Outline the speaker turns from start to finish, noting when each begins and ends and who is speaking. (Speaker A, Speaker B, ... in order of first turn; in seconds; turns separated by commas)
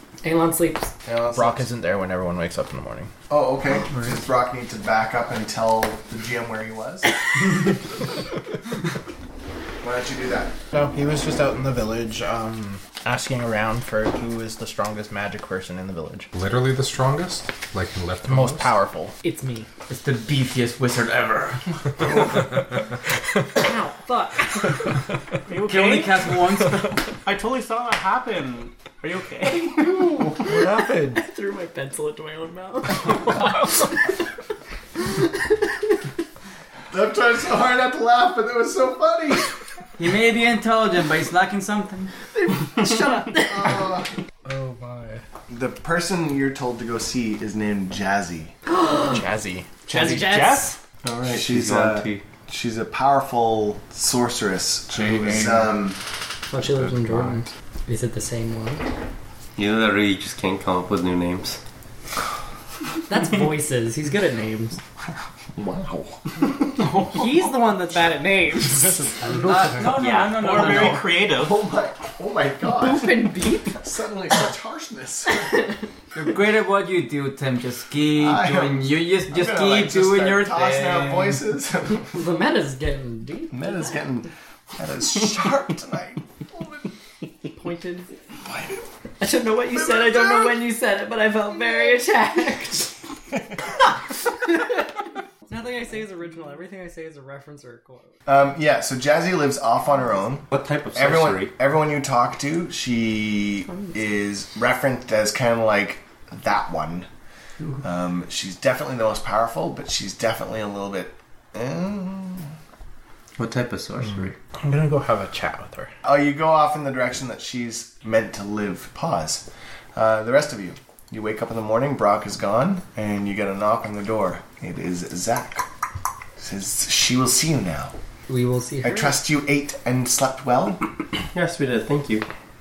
Speaker A: 0.2-0.9, Speaker B: 1.0-1.6, Speaker C: 1.3-3.1, Speaker B: 3.3-7.1, Speaker B: 9.8-10.5, Speaker C: 10.7-16.3, Speaker D: 16.3-18.7, Speaker C: 18.3-19.1, Speaker A: 19.2-19.7, Speaker E: 19.9-22.2, Speaker A: 23.5-24.9, Speaker F: 25.5-26.4, Speaker E: 25.6-27.1, Speaker F: 27.2-30.2, Speaker C: 30.4-31.2, Speaker A: 30.4-33.6, Speaker B: 36.9-39.5, Speaker E: 40.0-42.1, Speaker A: 42.3-43.9, Speaker B: 43.4-44.1, Speaker C: 44.4-45.2, Speaker B: 45.5-48.5, Speaker A: 48.7-49.2, Speaker C: 49.0-49.7, Speaker F: 49.9-50.7, Speaker A: 49.9-50.8, Speaker G: 51.0-52.2, Speaker B: 51.2-56.0, Speaker D: 54.9-55.7, Speaker A: 56.5-58.8, Speaker G: 59.6-61.6, Speaker A: 63.0-64.8, Speaker B: 65.5-66.6, Speaker A: 66.9-69.6, Speaker C: 69.2-69.5, Speaker E: 69.5-71.0, Speaker F: 69.7-71.6, Speaker B: 71.2-75.7, Speaker A: 72.8-73.8, Speaker E: 76.1-81.4, Speaker B: 78.1-82.2, Speaker A: 82.0-84.0, Speaker B: 83.5-86.9, Speaker A: 87.5-88.1, Speaker B: 88.4-88.8, Speaker A: 89.2-93.0, Speaker B: 89.7-90.5, Speaker A: 94.1-98.1, Speaker B: 98.2-107.1, Speaker G: 100.5-101.5, Speaker B: 107.8-112.5, Speaker G: 113.4-114.3, Speaker C: 114.6-115.9, Speaker B: 116.0-125.7, Speaker B: 126.4-127.9, Speaker A: 128.3-129.2, Speaker B: 128.8-130.8, Speaker G: 131.3-132.3